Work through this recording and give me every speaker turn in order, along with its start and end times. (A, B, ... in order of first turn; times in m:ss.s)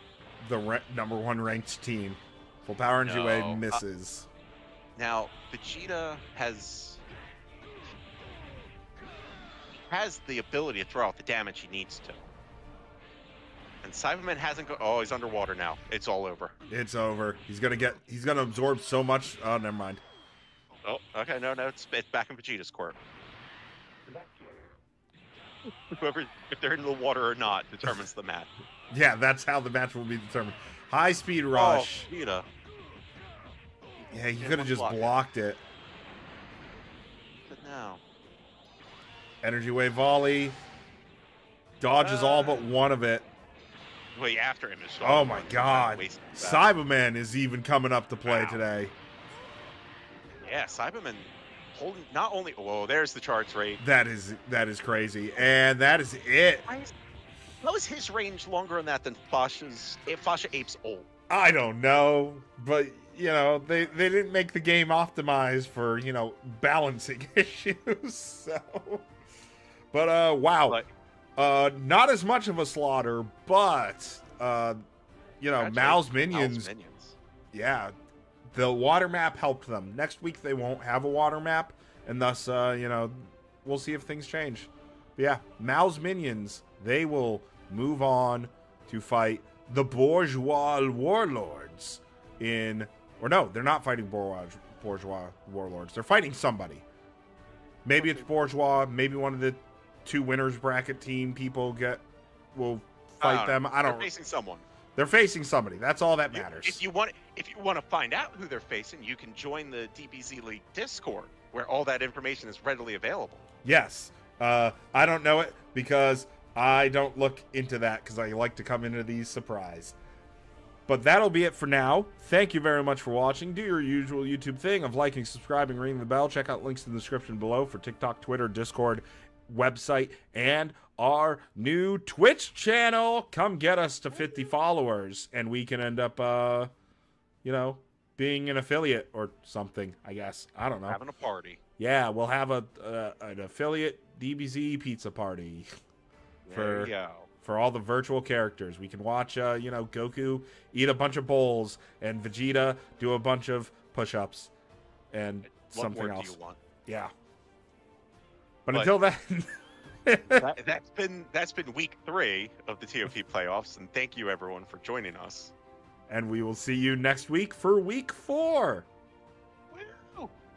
0:00.4-0:04.3 A
0:03.0-0:03.8 B
0:05.0-0:07.0 B
0:09.7-0:12.3 B
0:13.8-0:16.5 B
0:16.7-0:20.0 A
0:20.8-0:23.0 B
0:25.9-0:28.5 B
0:28.9-0:32.1 A
0:31.5-0:32.5 B
0:34.0-0:35.2 B
0:34.1-0:35.6 A
0:37.4-0:38.0 B
0:39.4-0:40.6 A
0:41.8-0:43.3 A
0:42.0-0:42.6 B
0:44.1-0:46.6 B
0:45.0-0:48.9 A
0:48.2-0:48.6 B
0:50.4-0:53.8 B
0:53.8-0:56.6 A
0:56.6-0:56.9 B
0:57.6-1:01.1 B
1:01.3-1:09.1 A
1:09.9-1:10.8 A
1:11.4-1:14.8 A
1:15.4-1:16.7 A
1:15.6-1:17.2 B
1:17.5-1:17.9 A
1:18.5-1:36.8 A
1:37.8-1:44.1 A
1:38.0-1:38.6 B
1:43.2-1:44.6 B
1:45.0-1:46.8 A
1:46.3-1:53.4 B
1:53.6-2:00.0 A
2:00.9-2:16.7 A
2:17.4-2:21.0 A
2:20.9-2:21.6 B
2:21.8-2:25.7 A
2:26.4-2:27.3 B
2:26.5-2:26.9 A
2:27.4-2:34.5 A
2:35.1-2:36.4 A
2:35.5-2:36.6 B
2:36.9-2:37.1 A
2:38.6-2:39.5 A
2:38.7-2:39.0 B
2:40.0-2:40.5 A
2:40.4-2:45.5 B
2:46.1-2:48.9 A
2:49.7-2:50.3 B